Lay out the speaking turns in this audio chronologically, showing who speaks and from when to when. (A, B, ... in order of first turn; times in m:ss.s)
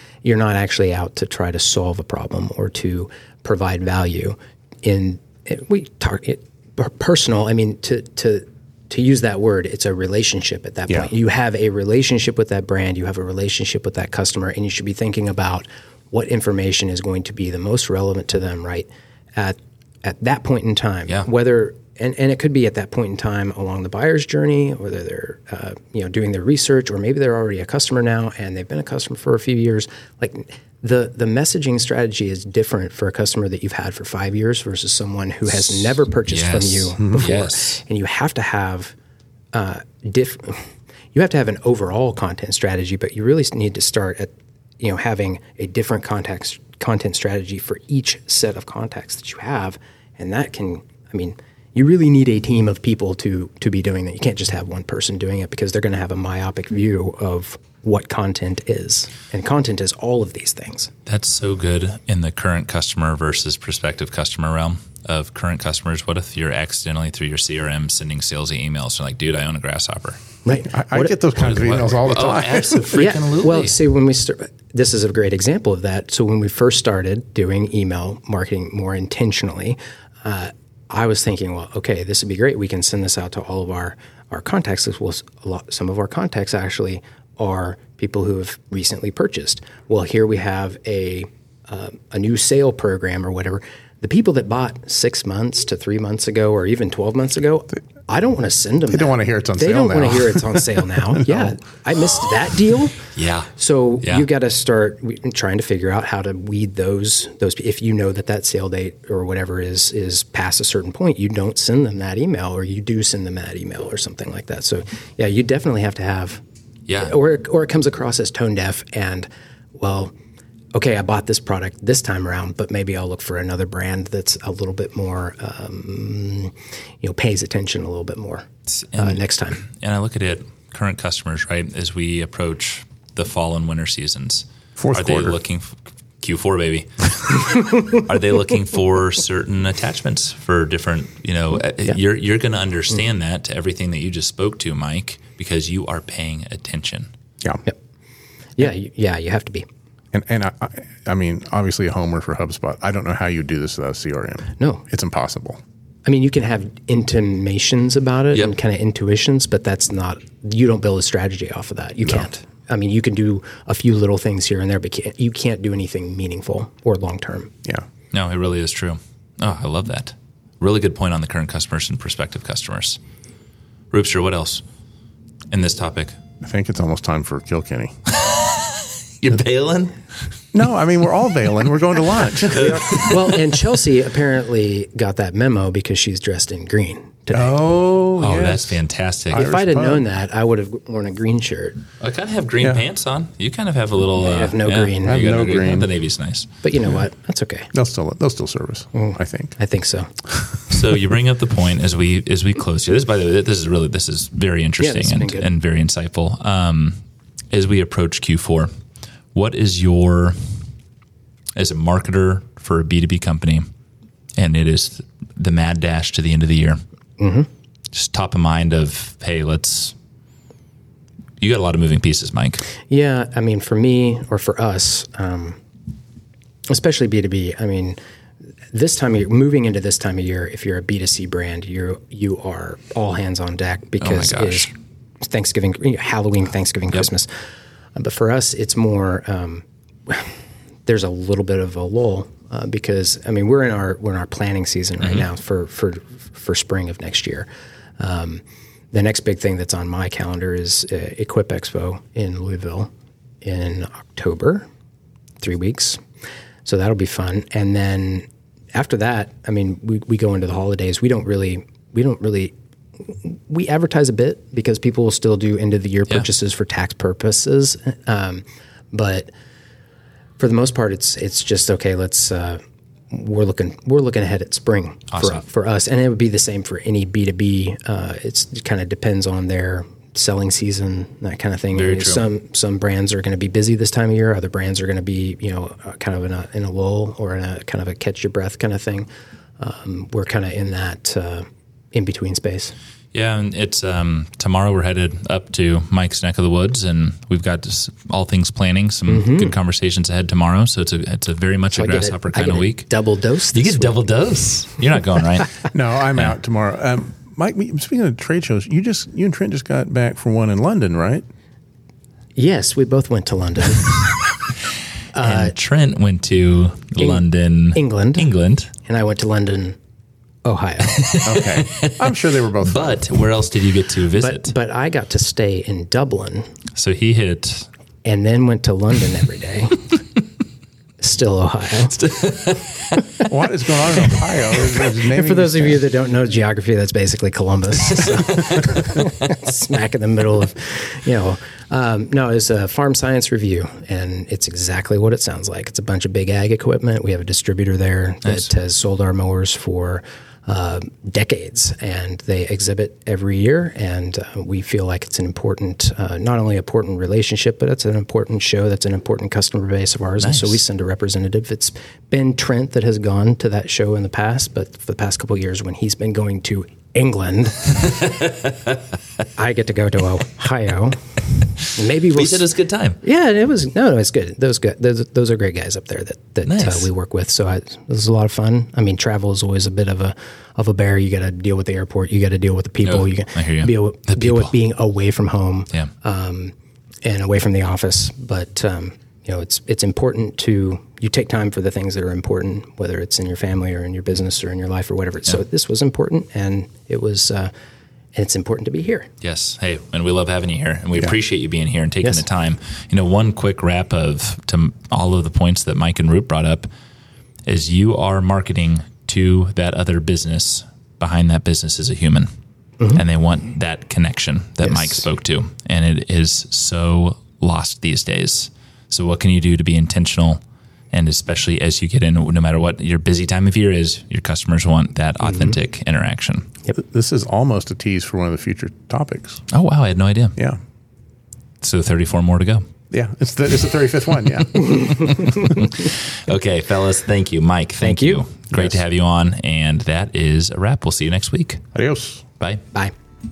0:00.2-0:38.9 A
0:35.6-0:37.8 B
0:39.5-1:00.9 A
1:01.0-1:10.2 B
1:10.4-1:11.2 A
1:10.6-1:12.9 C
1:11.4-1:13.8 B
1:12.9-1:56.4 A
1:38.9-1:41.6 C
1:43.1-1:43.5 B
1:44.0-1:44.3 B
1:56.9-1:57.2 B
1:57.0-2:00.1 A
2:00.7-2:09.6 A
2:08.8-2:27.1 B
2:14.8-2:15.4 C
2:28.6-2:29.6 A
2:30.1-2:35.6 C
2:36.0-2:47.5 A
2:48.1-2:53.0 B
2:53.9-2:54.6 B
2:55.5-2:56.2 B
2:56.4-2:58.0 C
2:58.1-3:00.3 B
3:00.5-3:03.1 C
3:02.5-3:03.3 B
3:02.8-3:07.6 A
3:07.3-3:08.8 C
3:08.2-3:09.5 B
3:09.3-3:10.0 C
3:09.3-3:11.8 A
3:12.0-3:16.5 B
3:14.2-3:15.2 A
3:15.0-3:15.9 C
3:16.6-3:17.7 A
3:17.7-3:19.6 C
3:18.9-3:20.1 A
3:20.2-3:20.6 C
3:20.7-3:28.7 B
3:24.8-3:25.5 A
3:29.3-3:30.6 B
3:31.6-3:33.7 B
3:34.4-3:36.8 B
3:37.2-3:37.5 A
3:37.9-3:39.9 B
3:41.4-3:42.6 B
3:42.9-3:45.6 A
3:46.7-3:48.0 A
3:48.7-3:54.7 A
3:54.0-3:54.7 B
3:55.2-3:57.3 A
3:57.9-4:00.3 A
4:00.8-4:07.5 A
4:08.0-4:12.9 A
4:13.4-4:14.7 A
4:15.4-4:16.0 A
4:16.6-4:29.3 A
4:30.4-4:49.1 A
4:35.1-4:35.4 B
4:41.7-4:42.3 B
4:49.6-4:52.7 A
4:53.1-5:02.9 B
4:59.1-4:59.5 A
5:01.8-5:04.0 A
5:03.5-5:05.6 B
5:05.7-5:11.2 C
5:12.4-5:14.0 A
5:15.1-5:15.5 A
5:15.2-5:18.7 B
5:17.0-5:18.3 A
5:18.8-5:19.8 A
5:20.4-5:21.2 A
5:20.9-5:24.5 B
5:21.2-5:23.2 C
5:24.2-5:26.5 A
5:26.8-5:27.7 B
5:28.0-5:29.9 A
5:31.0-5:32.0 A
5:31.9-5:33.0 B
5:33.0-5:33.2 A
5:33.3-5:35.8 C
5:35.1-6:07.9 A
5:37.9-5:39.1 B
6:00.2-6:00.6 B
6:08.1-6:08.4 B
6:09.3-6:11.0 A
6:11.7-6:12.5 A
6:12.1-6:13.0 B
6:13.0-6:37.5 A
6:16.4-6:16.9 B
6:22.8-6:24.5 B
6:38.1-6:39.1 A
6:39.2-6:46.7 B
6:47.4-6:52.3 B
6:52.9-7:00.4 B
6:54.6-6:54.9 A
7:00.9-7:06.5 B
7:05.2-7:05.6 A
7:06.7-7:09.4 C
7:09.5-7:10.4 B
7:11.6-7:12.6 B
7:12.9-7:15.1 C
7:15.1-7:21.6 B
7:17.8-7:18.2 A
7:18.5-7:18.8 C
7:21.7-7:22.2 C